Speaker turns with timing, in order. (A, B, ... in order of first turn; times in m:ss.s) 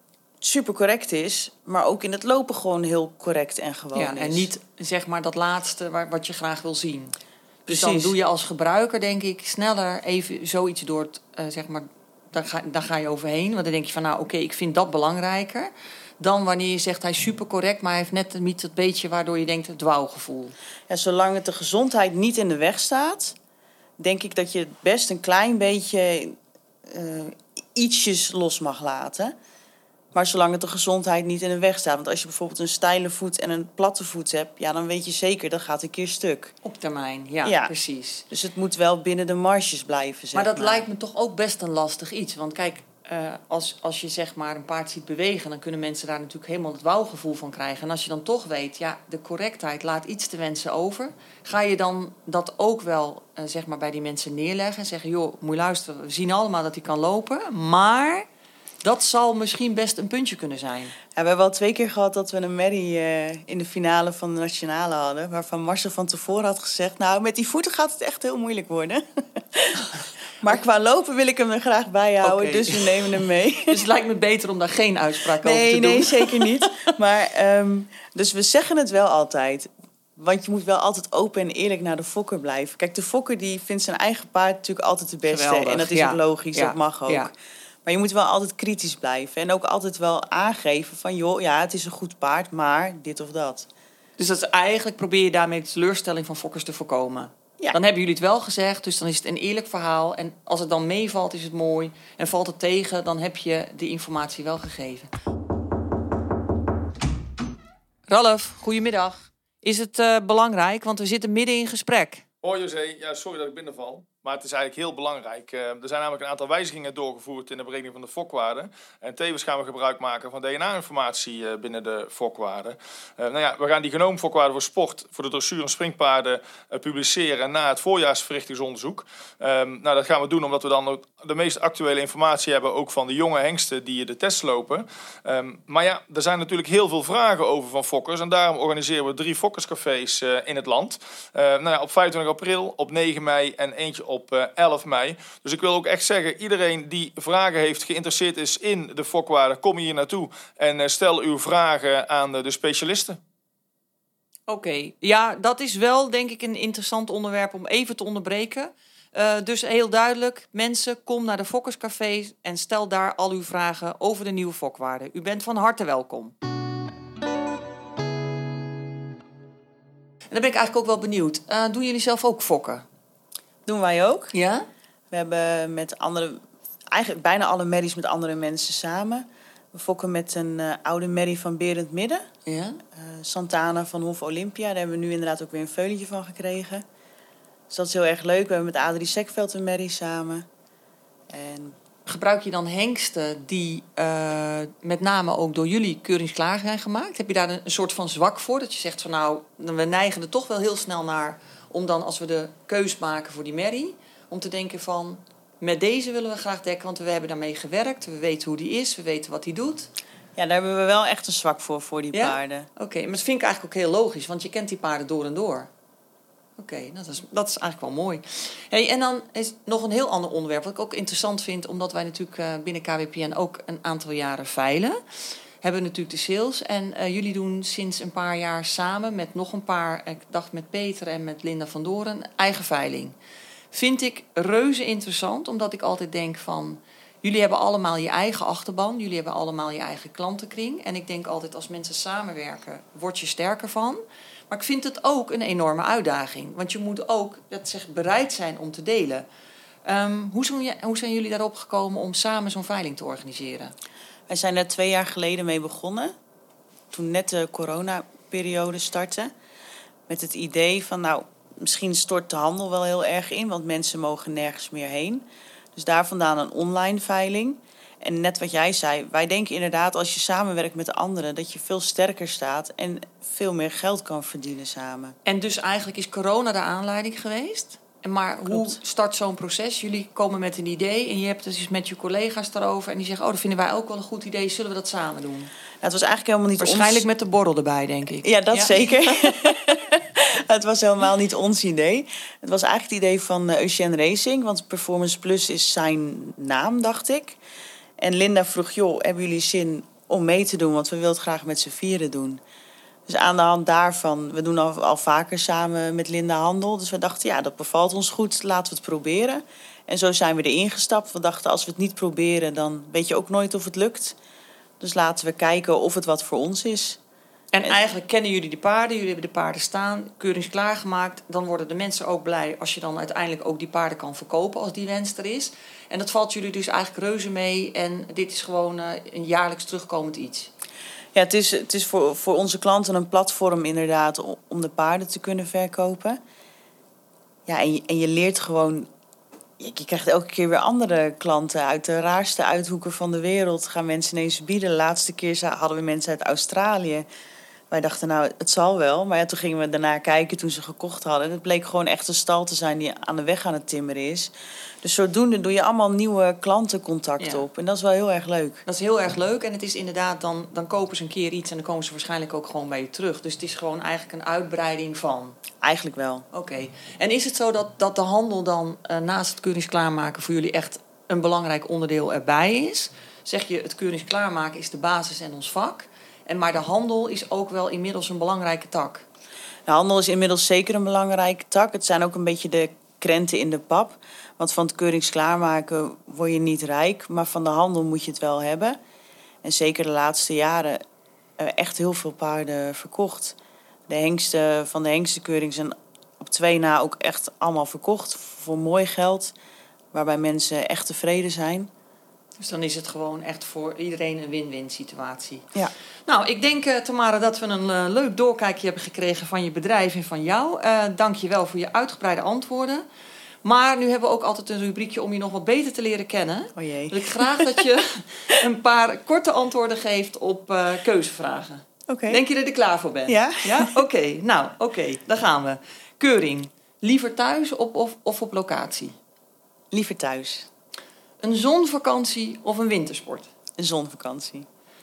0:00.4-0:04.5 A
0:03.9-0:07.1 B
0:07.6-0:20.5 B
0:07.7-0:08.1 A
0:20.9-0:23.4 A
0:24.0-0:29.3 A
0:30.1-0:36.5 A
0:36.6-0:38.2 B
0:37.4-0:37.7 A
0:38.3-0:40.8 A
0:40.3-0:58.2 B
0:58.8-1:00.9 B
1:01.1-1:13.8 A
1:12.2-1:16.9 B
1:15.4-1:27.3 A
1:25.3-1:27.3 B
1:27.8-1:33.7 A
1:34.2-1:45.1 B
1:48.1-1:52.2 B
1:52.4-2:33.2 C
2:34.5-2:46.3 B
2:50.3-2:52.8 B
2:53.6-2:54.3 A
2:54.3-2:54.7 B
2:55.1-2:56.4 A
2:56.9-3:02.2 A
3:02.4-3:02.8 B
3:02.9-3:06.8 A
3:07.7-3:10.5 A
3:11.3-3:11.8 A
3:12.0-3:29.9 B
3:30.4-3:32.7 A
3:32.1-3:35.7 B
3:36.6-3:45.0 B
3:45.6-3:53.1 B
3:53.7-4:09.2 B
4:09.8-4:13.7 B
4:14.3-4:16.1 A
4:16.9-4:19.3 A
4:20.1-4:35.2 A
4:35.2-4:45.5 B
4:38.5-4:38.8 A
4:45.8-4:47.0 A
4:46.6-4:48.9 B
4:48.2-4:57.4 A
4:58.0-5:02.4 A
5:03.1-5:14.2 A
5:14.8-5:17.0 A
5:17.5-5:30.5 B
5:31.1-5:36.2 A
5:37.5-5:38.9 A
5:39.6-5:47.0 A
5:47.7-5:58.6 A
5:57.2-5:57.4 B
5:58.6-6:05.4 B
6:05.6-6:06.2 A
6:06.3-6:19.0 B
6:19.7-6:28.8 A
6:29.4-6:30.8 A
6:31.4-6:33.4 A
6:33.9-6:39.3 A
6:39.9-6:41.7 A
6:42.4-6:45.4 B
6:46.1-6:52.8 B
6:53.4-7:08.9 B
6:56.6-6:57.6 A
7:01.9-7:02.2 A
7:03.1-7:03.7 A
7:09.7-7:10.5 A
7:11.2-7:13.3 B
7:13.6-7:14.5 A